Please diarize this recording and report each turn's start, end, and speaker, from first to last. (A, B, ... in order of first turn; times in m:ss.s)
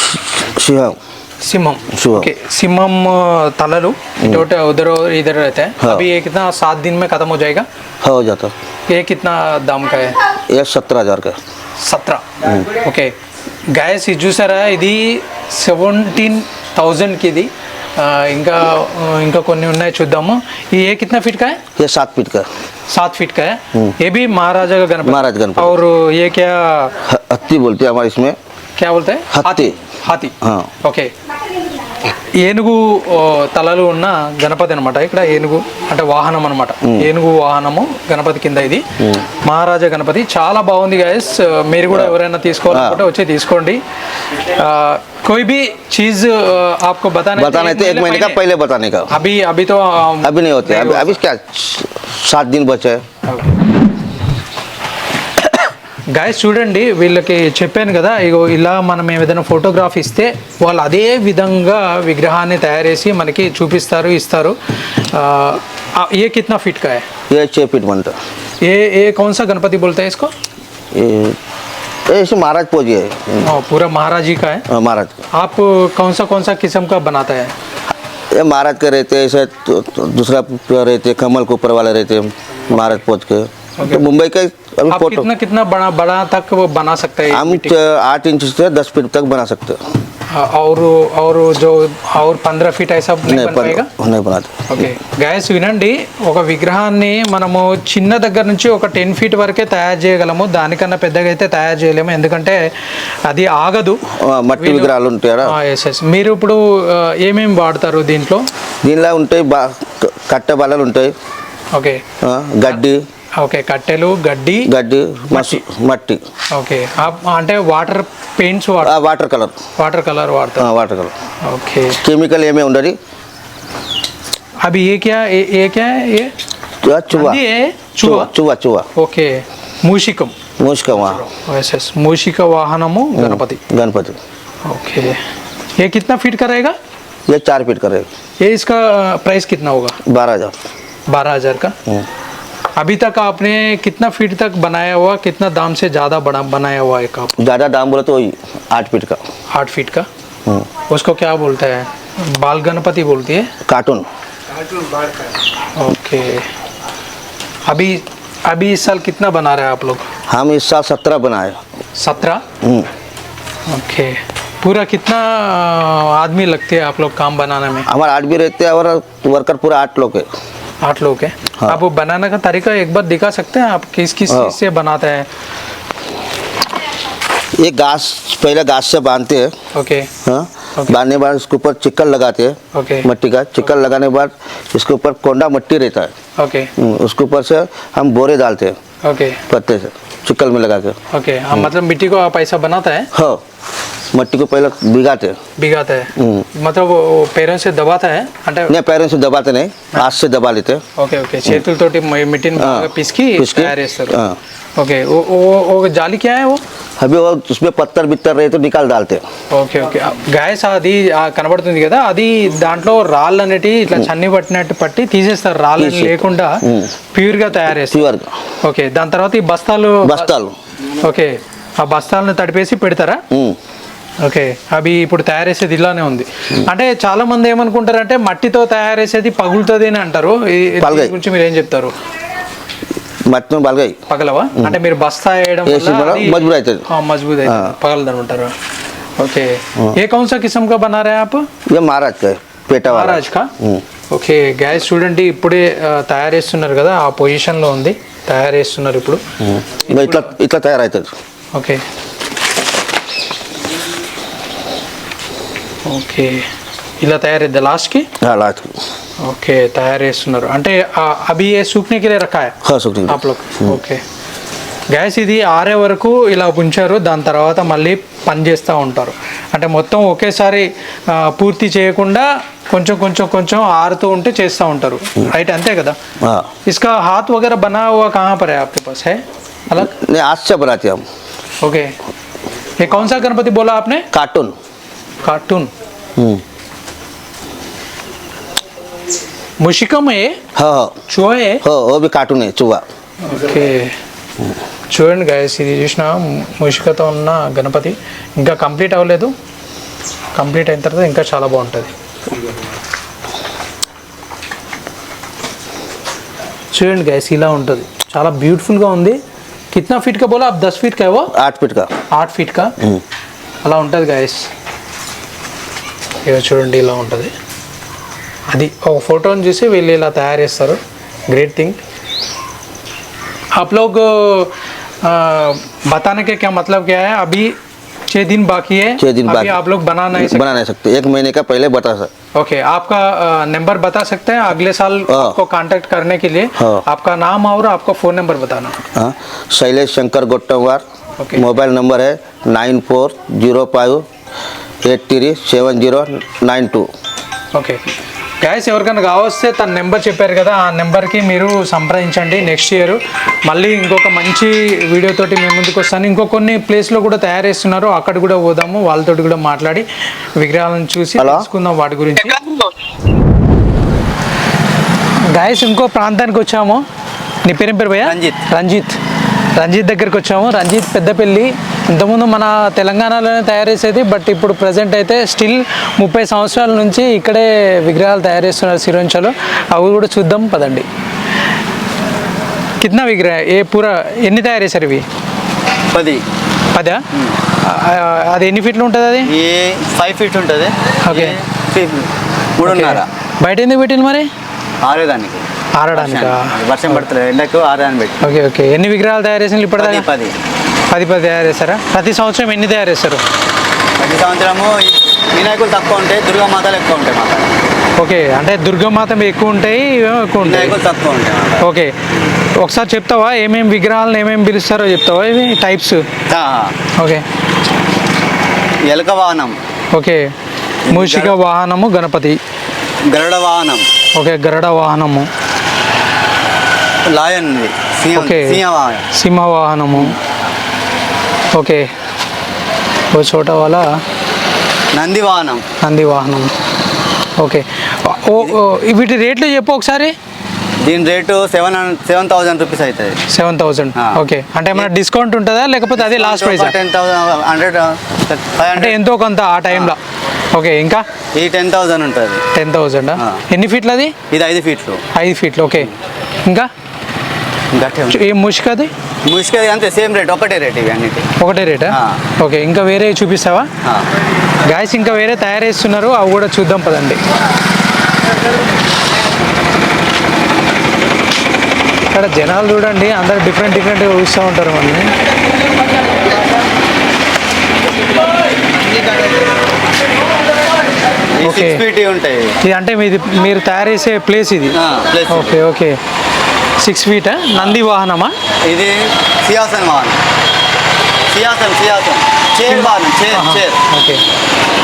0:00.1-0:01.0 A
0:01.4-0:07.7 B
0:01.9-0:02.3 A
0:05.8-0:06.0 A
0:08.0-0:08.5 A
0:08.9-0:10.2 B
0:10.5-0:11.4 A
0:11.8-0:13.1 B
0:13.7-0:21.6 B
0:21.8-0:22.5 A
0:22.9-0:26.9 B
0:25.0-0:25.8 A
0:27.0-0:28.4 A
0:28.8-0:31.1 B
0:29.3-0:29.7 A
0:30.4-0:30.7 A
0:32.1-0:43.8 B
0:36.8-0:37.1 A
0:39.0-0:39.2 A
0:42.7-0:43.0 A
0:44.4-0:48.4 B
0:47.4-0:49.1 A
0:49.1-0:51.2 B
0:50.2-0:53.0 A
0:56.1-1:07.0 B
1:07.3-1:08.2 A
1:08.6-1:10.3 B
1:10.9-1:11.4 A
1:12.1-1:13.4 A
1:13.4-1:14.6 B
1:14.7-1:15.2 A
1:15.3-1:17.5 B
1:18.3-1:25.3 A
1:23.8-1:24.0 B
1:24.9-1:27.7 B
1:27.3-1:29.8 A
1:30.3-1:33.9 B
1:33.3-1:34.7 A
1:34.7-1:42.6 B
1:43.3-1:44.0 B
1:44.1-1:45.5 A
1:44.6-1:44.9 B
1:45.4-1:48.4 B
1:48.8-1:51.1 A
1:51.7-1:52.0 B
1:52.2-1:53.0 A
1:53.4-1:54.7 B
1:54.6-1:56.2 A
1:55.3-1:55.6 B
1:56.5-1:59.0 B
1:58.8-1:59.6 A
1:59.8-2:00.7 B
2:00.6-2:01.1 A
2:01.4-2:02.0 B
2:02.0-2:03.0 A
2:04.6-2:06.3 B
2:06.8-2:07.4 A
2:07.1-2:08.3 B
2:08.0-2:08.9 A
2:09.0-2:10.3 B
2:10.6-2:11.2 A
2:11.0-2:13.6 B
2:13.1-2:14.2 A
2:14.6-2:15.2 B
2:15.8-2:16.8 B
2:17.3-2:18.1 A
2:18.4-2:20.0 B
2:20.0-2:20.5 A
2:21.1-2:21.7 B
2:22.8-2:27.4 B
2:27.4-2:29.2 A
2:29.5-2:30.1 B
2:30.9-2:33.5 B
2:33.6-2:34.1 A
2:35.8-2:36.4 B
2:37.7-2:40.1 B
2:40.3-2:41.6 A
2:42.0-2:42.4 B
2:42.6-2:42.9 A
2:43.7-2:47.9 B
2:47.9-2:50.3 A
2:50.8-2:55.3 B
2:54.3-2:54.5 A
2:57.6-2:59.5 A
2:59.7-3:00.1 B
3:00.2-3:06.1 A
3:02.7-3:03.1 B
3:06.4-3:06.7 B
3:06.8-3:08.8 A
3:09.0-3:09.4 B
3:09.5-3:11.0 A
3:11.1-3:13.1 B
3:13.1-3:13.4 A
3:14.1-3:15.4 A
3:15.6-3:18.7 B
3:16.2-3:16.5 A
3:18.7-3:20.8 A
3:21.0-3:24.2 B
3:22.6-3:24.4 A
3:24.8-3:26.6 B
3:27.0-3:29.2 A
3:29.5-3:38.0 B
3:35.8-3:36.9 A
3:37.8-3:38.4 A
3:38.6-3:40.3 B
3:40.0-3:40.5 A
3:41.0-3:43.2 B
3:43.3-3:43.6 A
3:44.2-3:51.9 B
3:50.8-3:51.2 A
3:53.3-3:54.0 A
3:54.1-3:58.5 B
3:55.6-3:56.8 A
3:57.4-3:57.7 A
3:59.2-4:01.5 B
4:01.7-4:03.8 A
4:02.8-4:03.5 B
4:04.1-4:09.2 B
4:09.4-4:11.1 A
4:11.5-4:11.8 B
4:15.8-4:16.4 B
4:17.0-4:18.1 B
4:18.2-4:18.8 A
4:19.2-4:22.5 B
4:22.6-4:23.8 A
4:23.1-4:24.0 B
4:24.9-4:36.0 B
4:36.2-4:36.5 A
4:36.6-4:39.9 B
4:39.8-4:41.0 A
4:41.6-4:41.9 B
4:42.8-4:44.1 B
4:44.1-4:44.6 A
4:45.2-4:45.7 B
4:46.2-4:46.4 A
4:49.6-4:50.4 B
4:50.6-4:51.0 A
4:51.1-4:51.6 B
4:51.6-4:52.8 A
4:53.2-4:53.9 B
4:54.9-4:59.3 B
5:00.3-5:01.9 B
5:06.7-5:09.2 B
5:09.7-5:11.3 B
5:11.3-5:11.9 A
5:12.1-5:12.8 B
5:13.6-5:14.4 B
5:16.2-5:17.3 B
5:18.5-5:21.8 B
5:23.6-5:27.6 B
5:28.1-5:30.6 B
5:29.0-5:29.6 A
5:30.1-5:32.1 A
5:32.3-5:38.8 B
5:35.1-5:35.4 A
5:36.6-5:36.8 A
5:39.0-5:40.8 A
5:41.2-5:41.4 B
5:41.3-5:44.0 A
5:44.8-5:46.9 A
5:47.5-5:47.8 B
5:48.4-6:02.4 B
6:01.2-6:01.5 A
6:05.3-6:06.8 B
6:07.4-6:09.0 B
6:08.0-6:08.4 C
6:09.6-6:20.9 B
6:22.8-6:25.0 B
6:25.9-6:26.2 C
6:26.7-6:27.0 B
6:27.6-6:29.3 B
6:29.2-6:33.1 C
6:31.0-6:31.4 B
6:32.6-6:34.3 B
6:34.8-6:38.3 C
6:35.8-6:37.0 B
6:38.2-6:40.0 B
6:39.8-6:40.3 C
6:40.9-6:43.2 B
6:44.0-6:47.6 C
6:48.0-6:50.8 B
6:50.4-6:51.6 C
6:51.6-6:52.0 B
6:52.6-6:56.0 B
6:56.3-6:56.8 C
6:57.0-6:57.2 B
6:58.8-6:59.6 C
6:59.9-7:00.3 B
7:00.9-7:01.3 C
7:00.9-7:02.4 B
7:03.1-7:03.9 C
7:04.1-7:05.3 B
7:07.1-7:09.0 C
7:08.1-7:08.6 B
7:09.1-7:10.2 B
7:11.5-7:11.9 B
7:13.1-7:14.0 B
7:14.9-7:15.6 C
7:15.8-7:16.5 B
7:17.4-7:20.1 B
7:20.8-7:23.2 C
7:23.3-7:26.8 B
7:26.0-7:29.0 C
7:28.7-7:30.0 B
7:30.5-7:31.0 B
7:31.3-7:32.4 C
7:32.5-7:34.1 B
7:34.3-7:35.0 C
7:35.1-7:35.9 B
7:37.7-7:38.2 C
7:38.1-7:38.9 B
7:39.2-7:41.3 C
7:41.4-7:43.7 B
7:41.9-7:42.2 C
7:44.6-7:47.2 B
7:52.1-7:55.1 B
8:01.4-8:02.6 C
8:01.4-8:01.8 B
8:02.6-8:04.8 B
8:04.7-8:05.6 C
8:05.3-8:06.0 B
8:06.8-8:08.4 B
8:08.6-8:10.2 C
8:11.3-8:13.8 C
8:12.7-8:14.2 B